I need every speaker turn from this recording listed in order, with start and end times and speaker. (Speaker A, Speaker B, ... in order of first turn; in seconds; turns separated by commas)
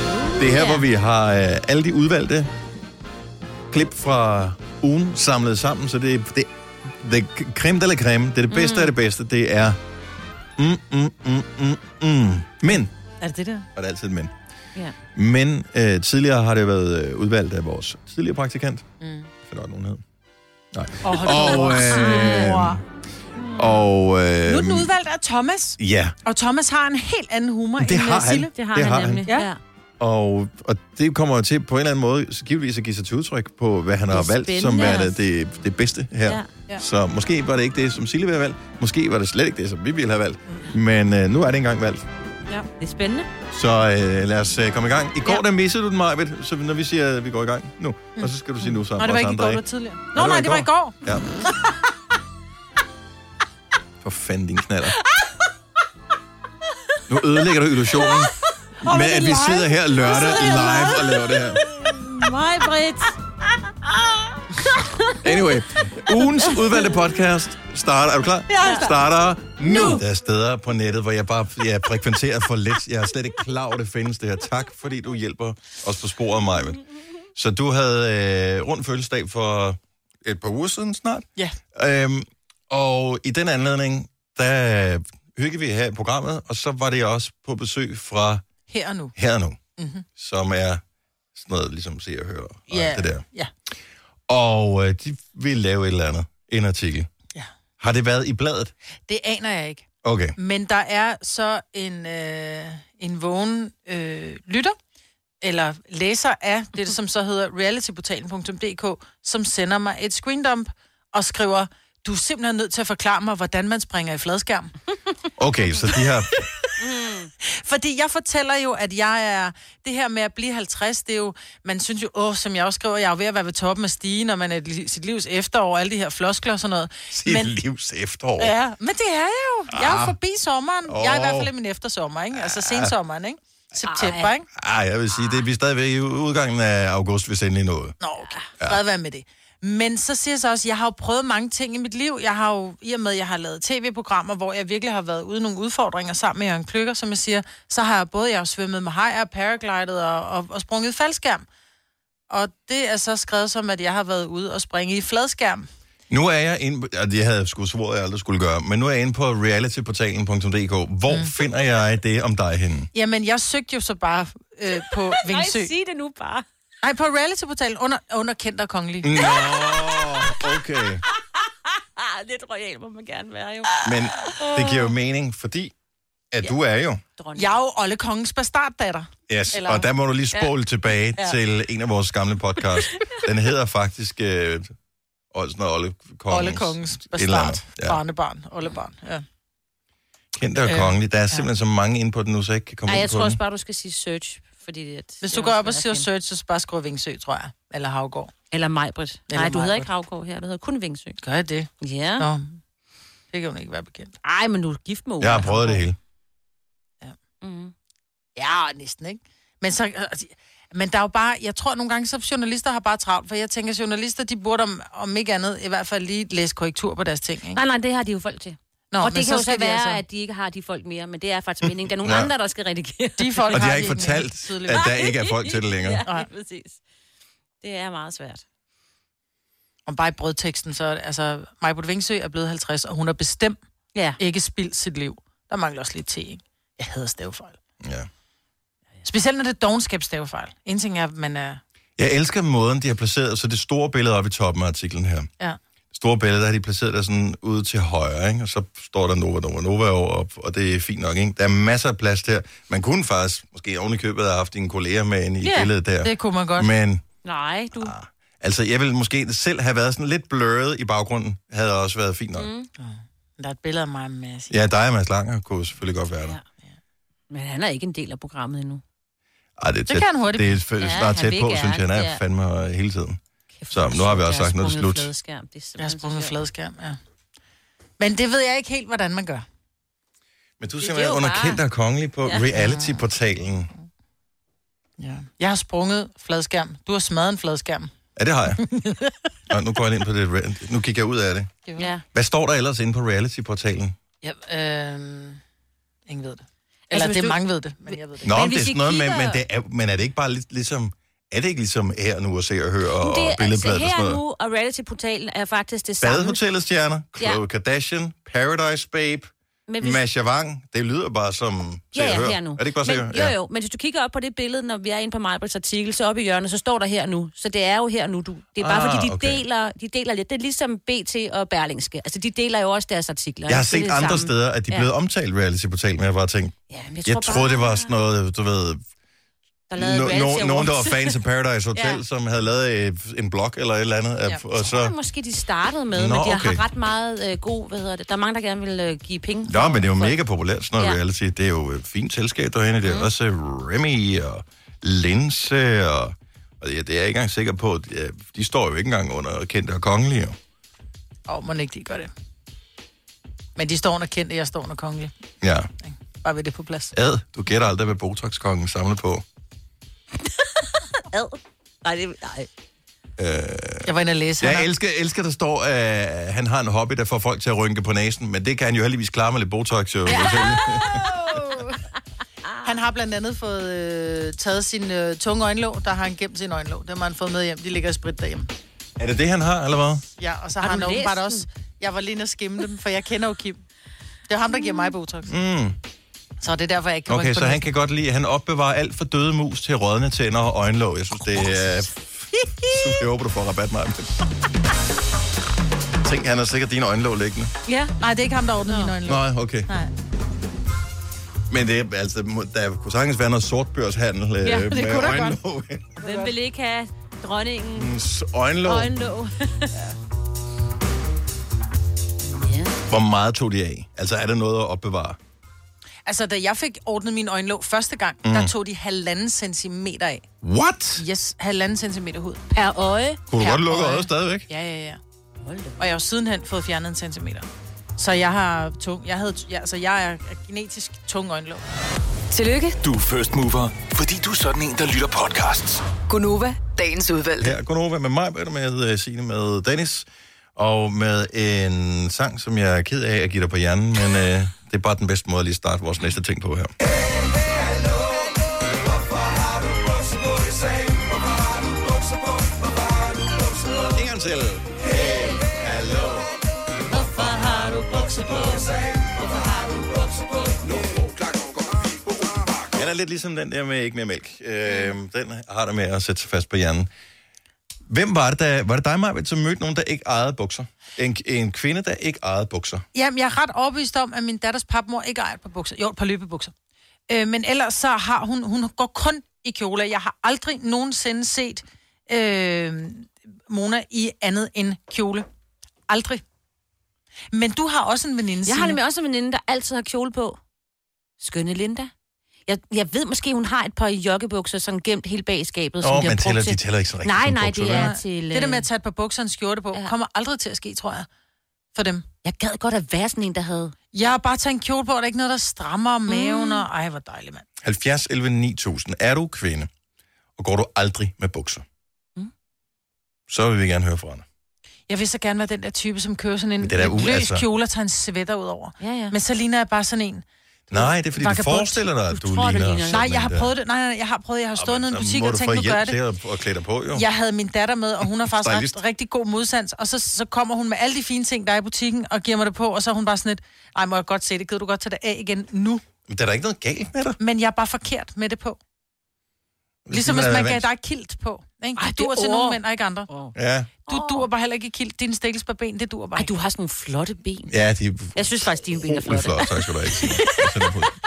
Speaker A: 0.3-0.8, Speaker B: 0.4-2.5, Speaker B: 3.7-9.8, Speaker A: 8.5-8.9, Speaker B: 10.6-12.9, Speaker C: 13.2-13.7, Speaker B: 13.7-14.3, Speaker B: 15.1-18.9, Speaker C: 19.0-19.3, Speaker B: 19.4-20.0, Speaker B: 20.7-22.8, Speaker C: 21.0-22.8, Speaker A: 21.3-22.6, Speaker A: 23.4-23.8, Speaker B: 23.5-24.9, Speaker C: 24.5-28.5, Speaker B: 25.8-26.1, Speaker B: 27.8-29.2, Speaker A: 28.5-29.6, Speaker B: 30.0-42.1, Speaker A: 34.1-35.1, Speaker A: 42.5-43.3, Speaker B: 43.5-49.6, Speaker C: 48.9-51.0, Speaker B: 50.1-51.2, Speaker B: 54.0-55.0, Speaker B: 57.1-58.3, Speaker A: 58.0-58.3, Speaker C: 58.8-60.7, Speaker B: 58.9-61.6, Speaker A: 60.0-63.1, Speaker A: 63.9-65.2, Speaker B: 65.2-76.8, Speaker C: 68.6-68.9, Speaker A: 69.6-70.0, Speaker B: 77.3-88.4, Speaker C: 88.7-89.1, Speaker B: 89.1-89.6, Speaker C: 89.8-90.0, Speaker B: 90.1-90.8, Speaker B: 91.3-93.2, Speaker C: 92.7-93.5, Speaker B: 94.3-97.1, Speaker B: 97.8-98.7, Speaker C: 99.1-104.8, Speaker B: 100.0-100.3, Speaker C: 105.4-114.7, Speaker B: 115.4-116.3, Speaker A: 116.8-117.3, Speaker C: 117.4-127.5, Speaker B: 127.1-128.5, Speaker C: 128.4-134.5, Speaker B: 129.7-130.1, Speaker B: 130.9-131.5, Speaker B: 132.3-132.9, Speaker A: 133.9-134.3, Speaker B: 134.5-137.9, Speaker A: 135.1-135.4, Speaker C: 138.0-151.4, Speaker C: 152.3-155.7, Speaker B: 156.1-162.9, Speaker C: 162.9-165.7, Speaker A: 165.2-166.4, Speaker C: 166.8-169.1, Speaker B: 169.0-171.0, Speaker A: 169.2-170.4, Speaker A: 171.1-174.9, Speaker B: 173.8-175.7, Speaker B: 176.3-177.0, Speaker A: 177.2-177.5, Speaker C: 177.3-179.9, Speaker B: 179.3-184.7, Speaker B: 185.3-188.0, Speaker C: 186.3-189.2, Speaker B: 190.3-193.4, Speaker C: 190.7-191.4, Speaker A: 192.9-196.0, Speaker C: 195.2-198.3, Speaker A: 198.5-201.2, Speaker C: 199.3-199.9, Speaker C: 201.2-202.6, Speaker A: 201.8-202.3, Speaker C: 203.3-204.1, Speaker A: 204.2-205.8, Speaker B: 205.2-206.0, Speaker A: 207.4-207.7, Speaker C: 208.3-217.6, Speaker A: 217.5-223.9, Speaker C: 218.9-220.0, Speaker B: 221.7-222.3, Speaker C: 223.2-224.9, Speaker B: 223.5-226.0, Speaker A: 224.7-226.8, Speaker A: 227.6-228.4, Speaker C: 229.8-233.6, Speaker A: 233.9-234.2, Speaker C: 234.2-237.6, Speaker B: 237.8-238.1, Speaker C: 239.0-241.6, Speaker B: 242.0-245.3, Speaker B: 245.9-257.0, Speaker A: 255.4-255.7, Speaker C: 256.0-256.7, Speaker A: 257.2-257.9, Speaker B: 257.7-262.5, Speaker A: 262.4-262.7, Speaker C: 262.8-264.5, Speaker B: 264.5-266.4, Speaker A: 267.3-268.8, Speaker B: 269.6-275.1, Speaker C: 269.9-270.6, Speaker A: 270.8-272.2, Speaker A: 273.6-276.4, Speaker C: 275.8-277.0, Speaker C: 278.0-279.4, Speaker B: 280.6-283.7, Speaker A: 280.8-281.6, Speaker C: 282.5-283.1, Speaker C: 285.0-287.9, Speaker B: 288.1-288.6, Speaker C: 288.6-289.1, Speaker B: 289.5-291.5, Speaker A: 291.8-292.0, Speaker B: 292.1-293.9, Speaker C: 294.2-295.4, Speaker C: 296.1-298.3, Speaker A: 296.9-297.4, Speaker A: 297.9-299.4, Speaker B: 298.2-304.2, Speaker A: 303.0-306.4, Speaker B: 306.0-313.3, Speaker A: 309.7-310.0, Speaker A: 311.9-324.9, Speaker B: 318.6-319.4, Speaker B: 323.5-328.8, Speaker A: 326.7-327.9, Speaker A: 329.7-331.1, Speaker B: 329.8-334.9, Speaker A: 331.7-332.0, Speaker A: 334.6-340.2, Speaker B: 335.9-336.6, Speaker B: 339.5-350.4, Speaker A: 342.8-343.1, Speaker C: 351.3-352.1, Speaker C: 353.6-355.1, Speaker B: 355.4-355.7, Speaker C: 355.8-356.9, Speaker B: 356.9-359.2, Speaker A: 361.1-362.5, Speaker B: 363.2-371.1, Speaker C: 363.9-364.7, Speaker A: 370.1-371.3, Speaker C: 371.1-371.8, Speaker C: 372.6-378.5, Speaker B: 379.0-380.0, Speaker C: 380.2-383.6, Speaker A: 380.6-381.4, Speaker C: 384.3-385.3, Speaker B: 385.3-385.8, Speaker C: 386.4-387.6, Speaker B: 387.1-392.0, Speaker C: 392.4-392.7, Speaker B: 392.7-394.1, Speaker B: 396.0-397.5, Speaker A: 397.6-397.9, Speaker C: 398.0-399.9, Speaker A: 398.6-398.9, Speaker B: 399.0-399.7, Speaker B: 401.5-405.9, Speaker A: 404.4-405.4, Speaker C: 406.0-406.3, Speaker A: 406.0-407.9, Speaker B: 407.8-408.9, Speaker A: 408.6-409.7, Speaker A: 412.4-412.7, Speaker B: 412.9-415.2, Speaker C: 416.1-420.3, Speaker B: 418.2-418.5, Speaker B: 420.4-421.0, Speaker C: 420.9-422.4, Speaker A: 422.5-423.2, Speaker B: 423.3-424.5, Speaker C: 423.4-425.0, Speaker A: 425.4-425.8, Speaker C: 425.8-431.6, Speaker D: 432.3-432.8, Speaker E: 432.8-435.9, Speaker D: 436.0-437.6, Speaker B: 437.4-446.7, Speaker B: 453.8-456.2, Speaker A: 456.9-458.7, Speaker B: 462.7-466.9, Speaker B: 467.9-472.8, Speaker C: 472.9-476.5, Speaker C: 477.1-485.2, Speaker C: 485.9-486.2, Speaker C: 487.3-488.8, Speaker A: 488.4-490.4, Speaker A: 491.2-491.9, Speaker A: 492.5-498.6, Speaker B: 495.8-497.9, Speaker C: 497.7-501.1, Speaker C: 501.7-502.1, Speaker A: 502.2-503.7, Speaker C: 503.9-507.4, Speaker A: 506.1-506.6, Speaker B: 507.6-509.7, Speaker B: 510.4-511.6, Speaker B: 513.3-514.2, Speaker C: 514.9-521.8, Speaker B: 516.6-517.5, Speaker A: 518.8-519.1, Speaker B: 520.7-523.5, Speaker A: 522.1-523.1, Speaker C: 522.9-526.0, Speaker B: 524.5-527.1, Speaker C: 526.9-535.8, Speaker B: 528.1-528.8, Speaker B: 536.1-537.2, Speaker C: 537.2-538.6, Speaker B: 539.9-540.7, Speaker C: 539.9-543.1, Speaker A: 541.8-543.3, Speaker B: 543.3-543.7, Speaker A: 543.9-544.3, Speaker C: 543.9-546.3, Speaker A: 546.2-547.5, Speaker B: 547.5-550.9, Speaker A: 548.1-550.9